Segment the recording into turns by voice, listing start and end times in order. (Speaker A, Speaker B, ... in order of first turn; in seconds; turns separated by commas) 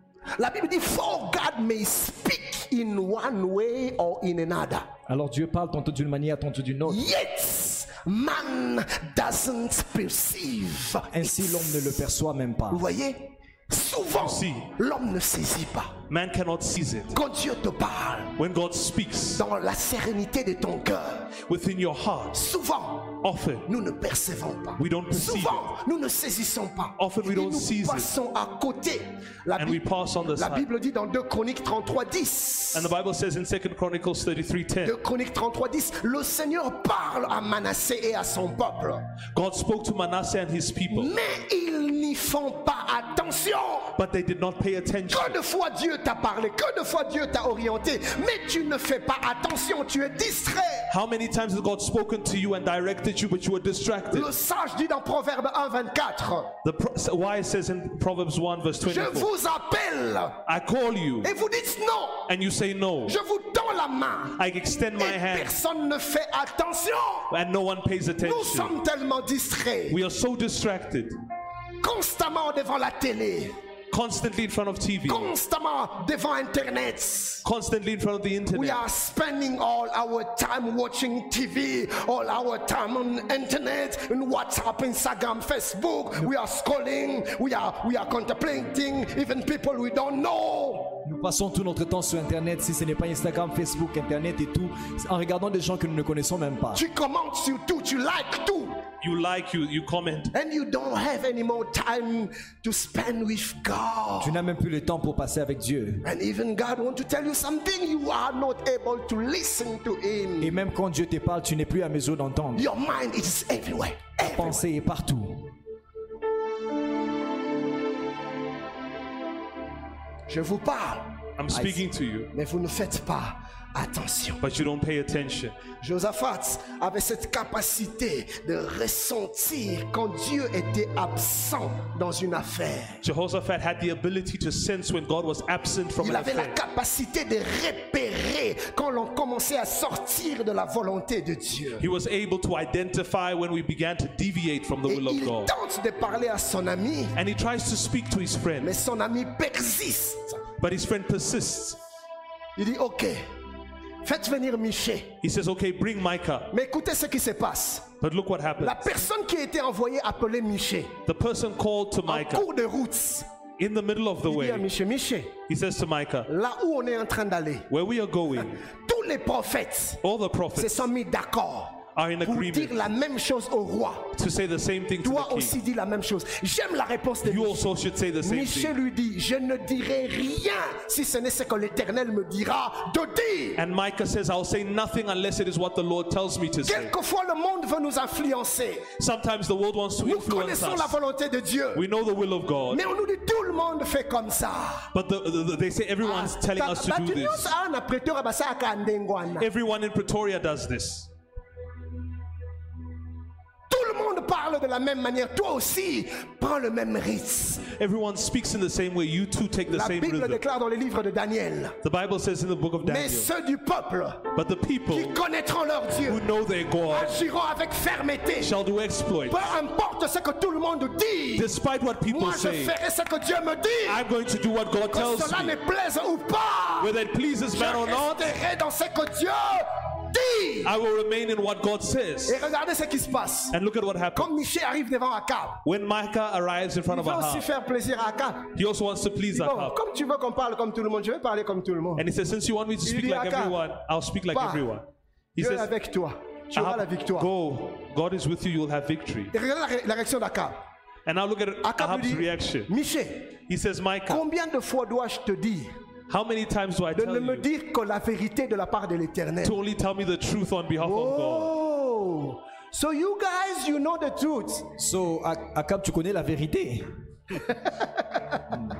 Speaker A: 0.3-4.9, Speaker B: 5.1-7.0, Speaker A: 6.8-12.0, Speaker B: 11.1-12.8, Speaker A: 12.7-16.0, Speaker C: 14.1-14.7, Speaker C: 16.1-17.2, Speaker A: 17.1-18.4, Speaker C: 18.4-19.4, Speaker A: 19.3-21.3, Speaker C: 21.5-22.4, Speaker A: 22.3-29.8, Speaker C: 23.2-23.6, Speaker C: 24.8-25.7, Speaker C: 27.0-28.1, Speaker C: 29.6-30.6, Speaker A: 30.3-32.9, Speaker C: 32.7-35.0, Speaker A: 34.8-39.1, Speaker C: 39.3-41.1, Speaker A: 40.9-44.0, Speaker C: 44.0-45.4, Speaker A: 45.1-50.9, Speaker C: 50.9-54.3, Speaker A: 54.1-56.5, Speaker C: 56.6-59.3, Speaker A: 58.8-60.4, Speaker C: 60.5-61.3, Speaker A: 61.2-62.3, Speaker C: 62.3-63.2, Speaker A: 63.0-64.4, Speaker C: 64.4-65.5, Speaker A: 65.0-67.3, Speaker C: 67.3-68.7, Speaker A: 68.2-70.0, Speaker C: 69.9-71.1, Speaker A: 71.8-73.5, Speaker C: 73.9-75.3, Speaker A: 75.1-77.4, Speaker C: 77.4-78.8, Speaker A: 78.5-91.0, Speaker B: 91.0-96.8, Speaker A: 96.7-98.8, Speaker C: 99.0-100.3, Speaker A: 100.3-104.4, Speaker B: 104.2-106.0, Speaker A: 106.0-110.6, Speaker B: 110.4-112.7, Speaker A: 112.5-114.6, Speaker B: 114.2-115.5, Speaker A: 120.3-121.2, Speaker C: 121.4-122.3, Speaker B: 121.5-121.8, Speaker A: 122.3-124.4, Speaker C: 124.4-125.6, Speaker A: 125.8-133.0, Speaker C: 133.0-136.6, Speaker A: 136.0-141.9, Speaker C: 141.8-145.5, Speaker A: 144.8-147.2, Speaker C: 147.2-148.7, Speaker A: 148.6-150.4, Speaker C: 150.6-151.8, Speaker A: 152.6-153.3, Speaker A: 154.0-155.2, Speaker C: 155.2-156.5, Speaker A: 156.5-158.0, Speaker C: 158.0-158.9, Speaker A: 158.6-161.0, Speaker C: 161.1-162.5, Speaker A: 162.1-163.3, Speaker C: 163.6-164.7, Speaker A: 164.2-165.4, Speaker C: 165.5-166.3, Speaker A: 166.3-167.7, Speaker C: 167.7-168.6, Speaker A: 168.6-170.0, Speaker C: 170.0-170.9, Speaker A: 170.5-174.1, Speaker C: 171.9-172.9, Speaker C: 174.1-175.6, Speaker A: 175.0-177.7, Speaker C: 177.2-178.7, Speaker A: 178.2-183.6, Speaker C: 183.6-186.9, Speaker A: 186.6-188.9, Speaker C: 189.0-191.0, Speaker A: 190.0-191.8, Speaker C: 191.7-192.8, Speaker A: 192.7-194.9, Speaker C: 194.9-197.5, Speaker A: 196.0-199.5, Speaker C: 199.4-201.1, Speaker A: 203.7-207.7, Speaker C: 207.7-210.4, Speaker A: 209.7-211.8, Speaker C: 211.8-213.3, Speaker A: 212.8-214.3, Speaker C: 214.3-215.2, Speaker A: 214.9-216.2, Speaker C: 216.0-217.2, Speaker A: 216.9-218.6, Speaker C: 218.4-219.5, Speaker A: 219.3-221.5, Speaker C: 221.3-222.8, Speaker A: 222.1-224.1, Speaker C: 223.8-225.6, Speaker A: 224.9-226.9, Speaker C: 226.8-228.3, Speaker A: 227.5-230.7, Speaker C: 230.6-232.4, Speaker A: 232.2-233.6, Speaker C: 233.5-234.3, Speaker A: 234.1-235.6, Speaker C: 235.6-237.4, Speaker A: 236.9-238.5, Speaker C: 238.5-239.7, Speaker A: 239.3-242.1, Speaker C: 242.0-245.7, Speaker A: 242.8-243.6, Speaker A: 244.3-244.7, Speaker A: 245.4-247.3, Speaker C: 246.5-249.3, Speaker A: 249.3-250.6, Speaker C: 251.1-252.7, Speaker A: 251.6-253.4, Speaker C: 253.5-254.2, Speaker A: 254.1-255.7, Speaker C: 256.1-257.5, Speaker A: 256.9-259.6, Speaker C: 259.4-261.5, Speaker A: 260.8-264.7, Speaker B: 264.8-266.9, Speaker A: 267.4-268.4